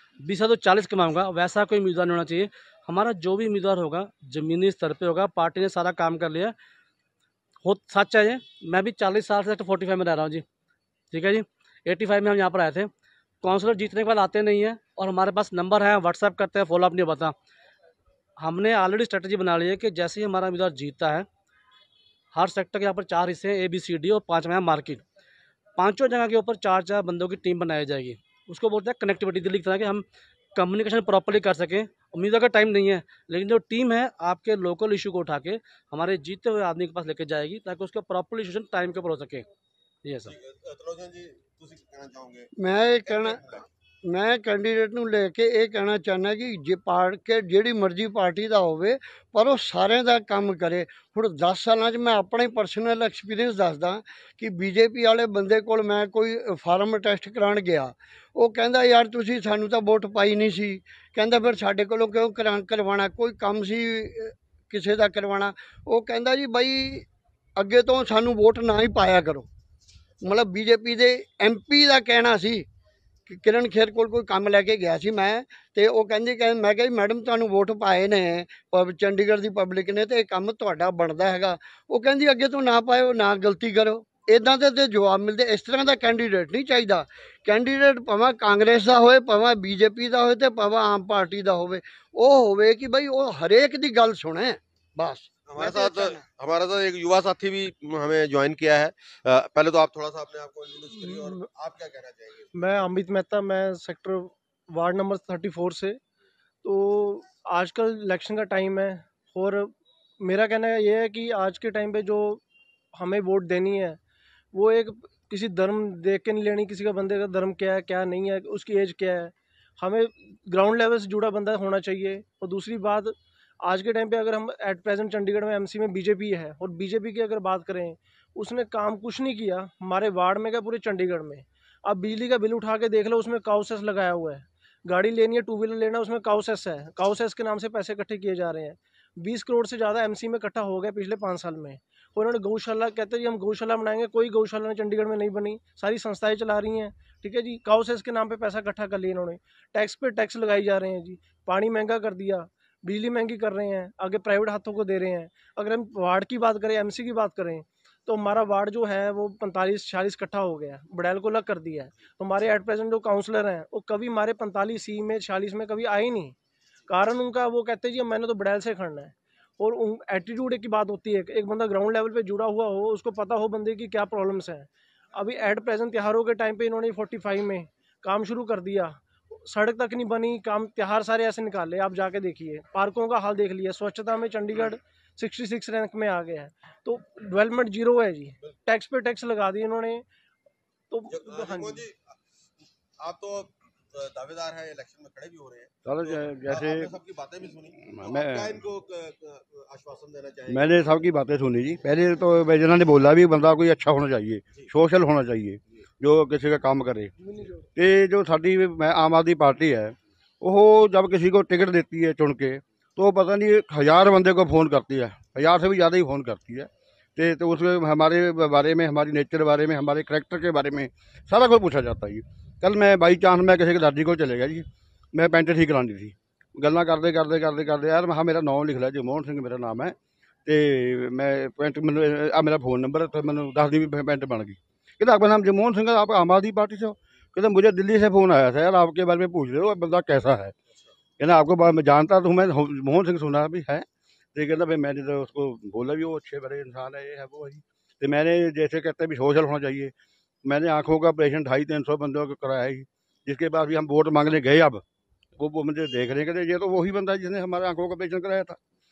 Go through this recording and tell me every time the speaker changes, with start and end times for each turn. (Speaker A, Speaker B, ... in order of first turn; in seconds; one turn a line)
Speaker A: 0.2-6.6
Speaker A: 7.7-10.4
Speaker A: 11.1-12.9
Speaker A: 13.4-17.4
Speaker A: 18.4-21.3
Speaker A: 22.3-25.0
Speaker A: 25.8-39.5
Speaker A: 40.0-40.4
Speaker B: 40.2-42.5
Speaker C: 42.6-43.5
Speaker B: 43.0-43.7
Speaker C: 44.1-69.5
Speaker C: 70.2-72.7
Speaker C: 73.3-96.2
Speaker B: 95.5-102.5
Speaker D: 101.0-101.4
Speaker D: 102.5-106.0
Speaker D: 106.6-112.4
Speaker D: 113.0-114.0
Speaker D: 114.5-166.4
Speaker D: 166.9-190.1
Speaker D: 190.9-191.8
Speaker B: 191.1-192.2
Speaker B: 193.0-200.8
Speaker E: 195.8-196.9
Speaker E: 197.8-198.6
Speaker E: 200.5-207.1
Speaker D: 207.2-207.7
Speaker E: 207.8-229.9
Speaker E: 230.5-240.6
Speaker E: 241.2-249.9
Speaker E: 250.4-254.8
Speaker E: 255.4-258.6